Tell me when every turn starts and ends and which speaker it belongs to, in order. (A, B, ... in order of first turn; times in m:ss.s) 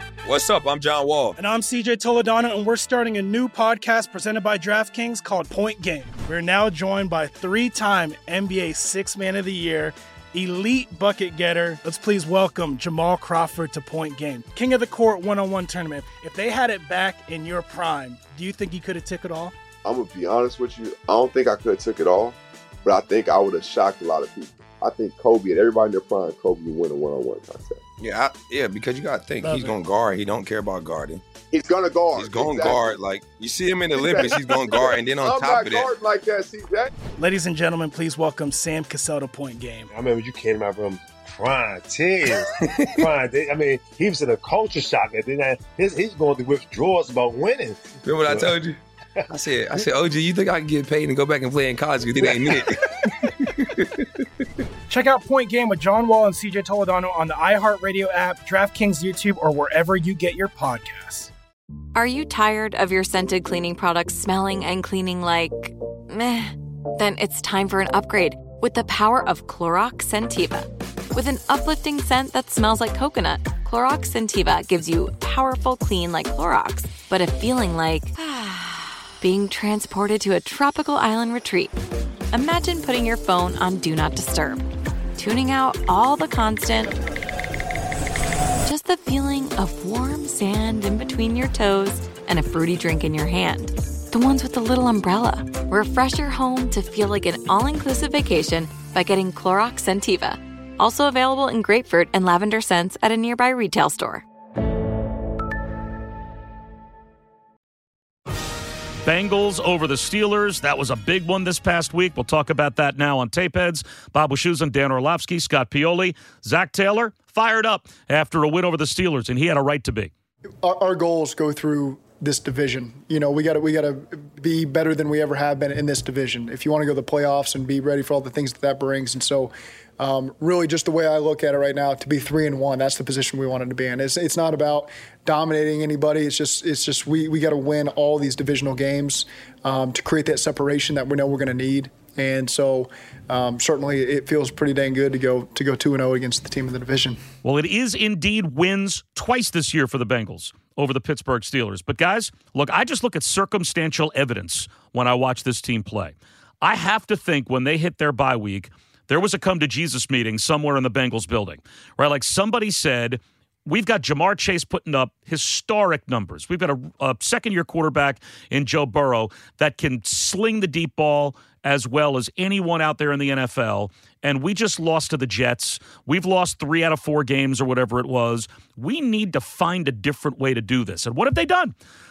0:00.2-0:01.4 A
0:01.4-0:19.5 B
0:19.8-0:27.8 C
0:28.0-0:31.2 A
0:31.4-0:33.0 C
0:32.1-0:35.9 A
0:33.9-0:34.4 C
0:35.2-0:36.9 C
0:37.2-0:39.9 B
0:39.9-0:48.5 D
0:42.8-0:43.0 A
0:48.0-0:48.8 A
0:49.3-0:53.8 A
0:52.3-0:52.6 D
0:54.9-1:01.3 B
1:01.9-1:21.7 E
1:22.3-1:24.6 E
1:25.2-1:26.9 E
1:28.6-1:44.2 E
1:49.0-2:00.1 F
2:00.6-2:27.2 G
2:27.4-3:01.7 F